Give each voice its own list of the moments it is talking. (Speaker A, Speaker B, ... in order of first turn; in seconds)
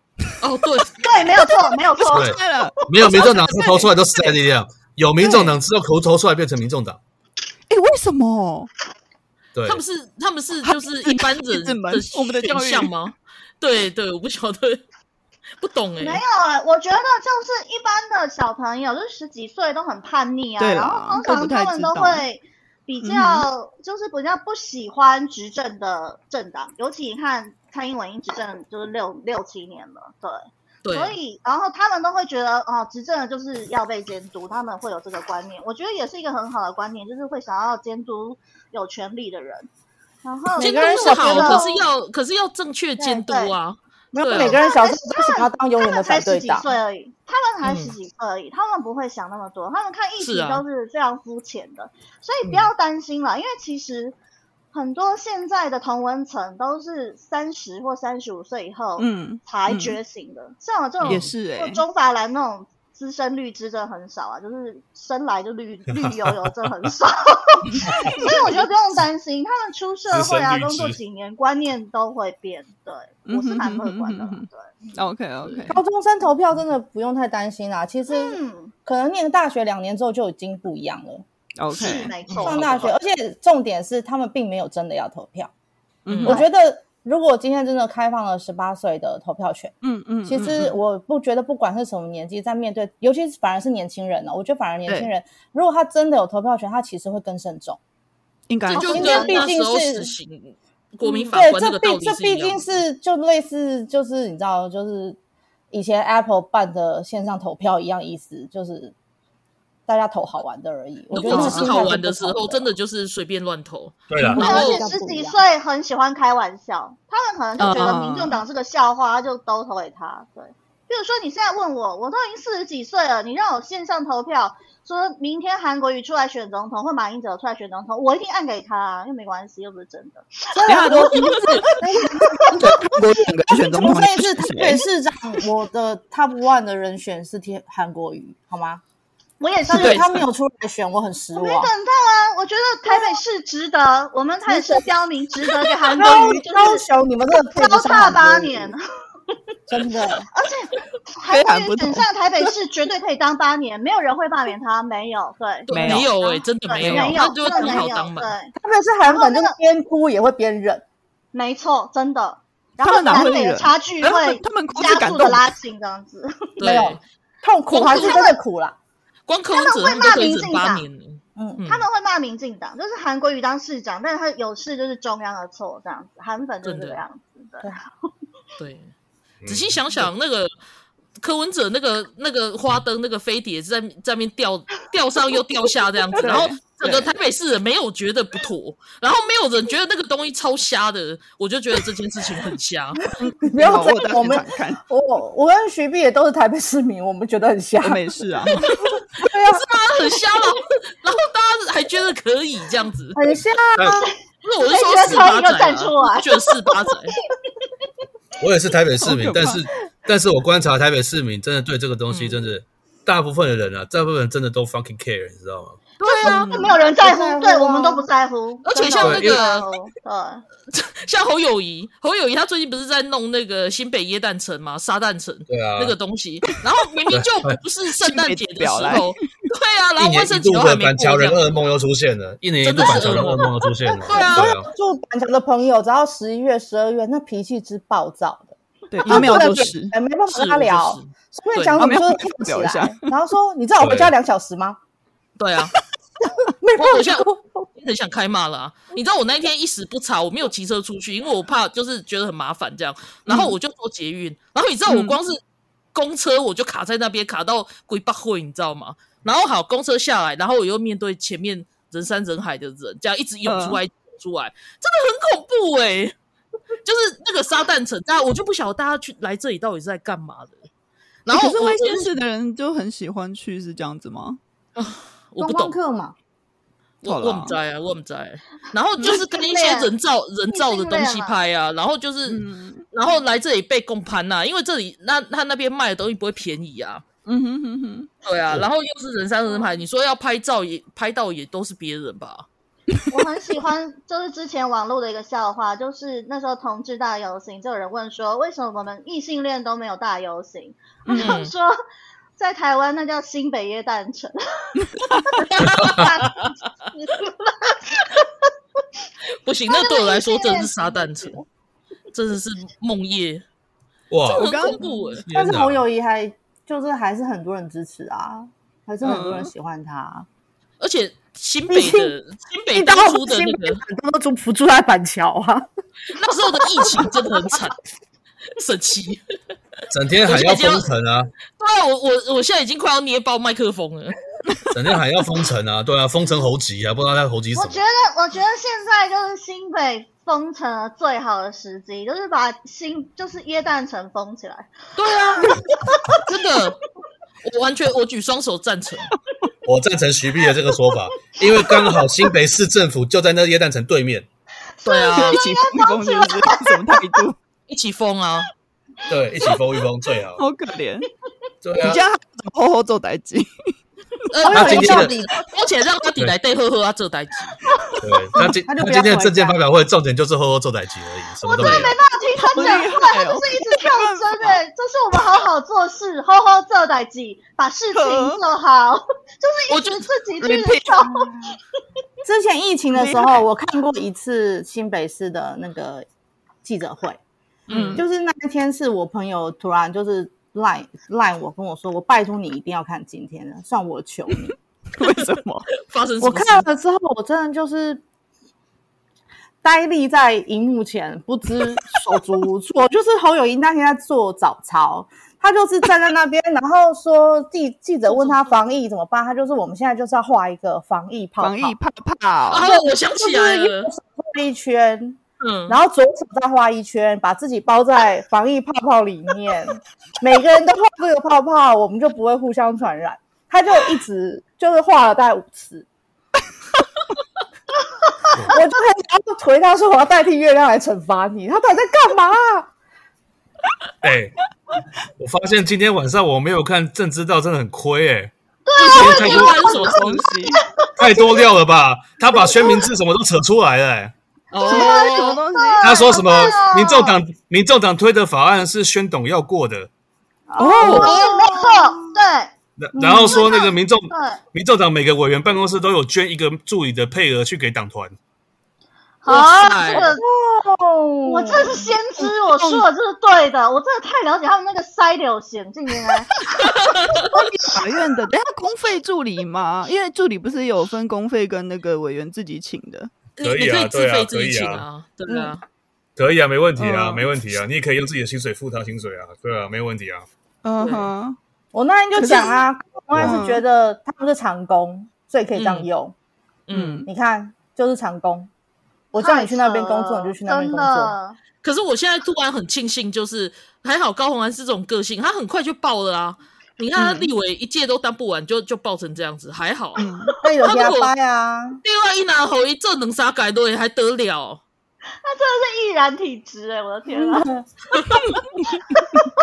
Speaker A: 0.4-1.0, 9.6-14.8, 15.6-16.2, 23.0-23.4, 30.8-31.1, 40.6-44.6, 47.6-47.9, 50.2-50.6, 61.0-61.3, 82.3-82.8, 86.1-86.4, 90.3-90.8, 98.8-102.8, 111.1-114.8, 117.6-118.0, 155.7-158.3, 166.6-167.0, 167.7-168.2, 169.3-171.8, 176.6-177.0, 178.6-178.9, 179.4-180.5, 181.2-193.0, 199.5-203.2, 204.4-207.2, 212.1-212.4, 216.0-216.3, 218.6-219.7, 220.7-231.4, 232.6-234.5, 239.0-239.7, 240.3-241.8, 245.4-245.7, 246.8-255.4, 255.9-266.1, 266.8-270.7, 271.2-272.1, 274.8-275.8, 277.0-287.0, 288.2-292.4, 301.1-301.5, 305.5-306.5, 309.4-311.4, 312.1-313.4, 314.3-315.2, 320.8-323.8, 326.1-327.8, 328.6-329.2, 330.2-330.9, 331.6-334.2, 344.9-345.5, 346.2-346.8, 347.4-349.1, 354.8-355.4, 357.7-358.5, 364.3-367.6, 371.6-371.9, 379.7-380.1, 387.7-388.0, 395.8-396.7, 408.1-408.4, 412.5-413.9, 415.4-415.8, 438.7-440.2, 444.5-445.4, 450.8-451.1, 459.3-460.1, 466.6-467.3, 473.4-475.6, 480.8-481.1, 485.5-485.9, 486.7-487.0, 491.6-500.0, 500.6-501.1, 501.8-504.6, 507.9-508.4
Speaker B: 1.0-2.8, 16.0-39.7, 40.2-41.7, 43.3-43.5, 44.4-54.1, 54.7-74.7, 78.1-78.7, 81.8-83.0, 98.7-99.4, 114.4-131.8, 139.4-140.1, 141.3-146.8, 147.5-148.8, 150.3-158.5, 159.1-159.6, 161.3-166.9, 167.8-168.4, 169.5-170.8, 171.6-177.7, 204.0-206.8, 216.0-220.4, 279.0-279.9, 280.5-281.4, 293.1-301.7, 302.4-304.8, 305.3-308.2, 309.7-310.7, 337.6-344.7, 345.4-346.2, 354.8-357.2, 371.5-381.3, 438.7-439.8, 444.7-447.2, 450.8-452.5, 453.2-454.4, 459.2-460.2, 461.2-466.5, 489.2-491.4, 505.2-507.5, 508.9-509.3
Speaker C: 1.4-4.3, 5.2-5.5, 7.7-8.7, 10.6-12.9, 20.6-22.2, 59.0-60.0, 61.0-61.8, 73.2-75.8, 81.6-82.1, 86.0-86.5, 89.8-90.5, 94.9-95.1, 98.5-99.2, 111.2-111.8, 117.6-118.4, 130.6-131.8, 132.5-134.8, 139.7-140.2, 151.3-152.5, 155.7-156.1, 156.8-157.2, 162.8-165.5, 186.2-187.1, 193.2-194.8, 197.8-198.8, 209.0-209.6, 216.2-216.8, 228.0-229.1, 238.9-239.9, 241.8-243.1, 253.3-253.5, 254.9-255.2, 263.4-263.8, 271.4-274.4, 277.0-277.6, 282.3-282.9, 287.2-288.1, 301.0-301.3, 305.0-305.4, 314.3-314.9, 319.0-319.5, 355.1-357.4, 360.4-361.1, 361.8-363.7, 364.5-365.0, 372.4-374.6, 377.9-378.4, 380.4-380.9, 382.9-383.4, 387.7-388.1, 395.0-395.7, 411.4-412.6, 438.9-440.6, 444.7-446.6, 450.6-451.2, 462.2-462.8, 467.3-473.1, 476.8-477.2, 480.6-481.4, 482.1-482.6, 483.2-483.6, 486.7-487.1, 497.0-497.3, 500.0-500.3
Speaker D: 2.1-7.0, 9.5-9.8, 65.9-66.3, 70.1-71.0, 114.1-114.4, 179.4-179.8, 208.4-215.8, 219.0-219.4, 225.5-225.9, 227.1-227.6, 230.0-234.7, 243.8-244.1, 314.1-314.5, 315.3-315.8, 329.9-331.3, 334.7-337.8, 349.6-354.3, 359.1-360.4, 361.6-362.0, 364.5-365.1, 368.0-371.9, 434.0-434.4, 435.2-438.3, 438.9-439.7, 441.0-444.1, 445.8-449.9, 452.8-458.1, 473.4-474.8, 476.1-480.3, 483.1-483.4
Speaker E: 40.5-41.7, 44.1-46.7, 75.7-81.2, 82.4-85.5, 86.2-89.7, 90.2-97.8, 98.8-100.1, 101.0-105.2, 105.7-108.9, 109.9-112.7, 114.3-115.4, 130.5-132.8, 133.5-138.8, 139.7-141.7, 144.4-144.8, 145.9-148.7, 149.7-150.3, 158.6-160.8, 166.6-168.7, 171.3-171.6, 193.4-198.1, 199.2-199.7, 203.1-204.1, 216.8-218.1, 234.1-244.8, 246.6-247.5, 271.3-272.0, 275.4-276.1, 315.3-320.3, 321.7-322.1, 322.7-325.7, 364.4-365.4, 368.6-369.6, 381.1-381.5, 382.2-386.0, 386.6-387.2, 387.9-394.5, 396.2-398.0, 399.6-411.8, 412.6-425.9, 428.5-432.7, 444.8-445.1, 450.5-452.1, 452.9-453.4, 459.9-461.9, 481.7-486.1, 487.1-488.5, 489.1-491.1, 500.4-501.8, 507.1-507.6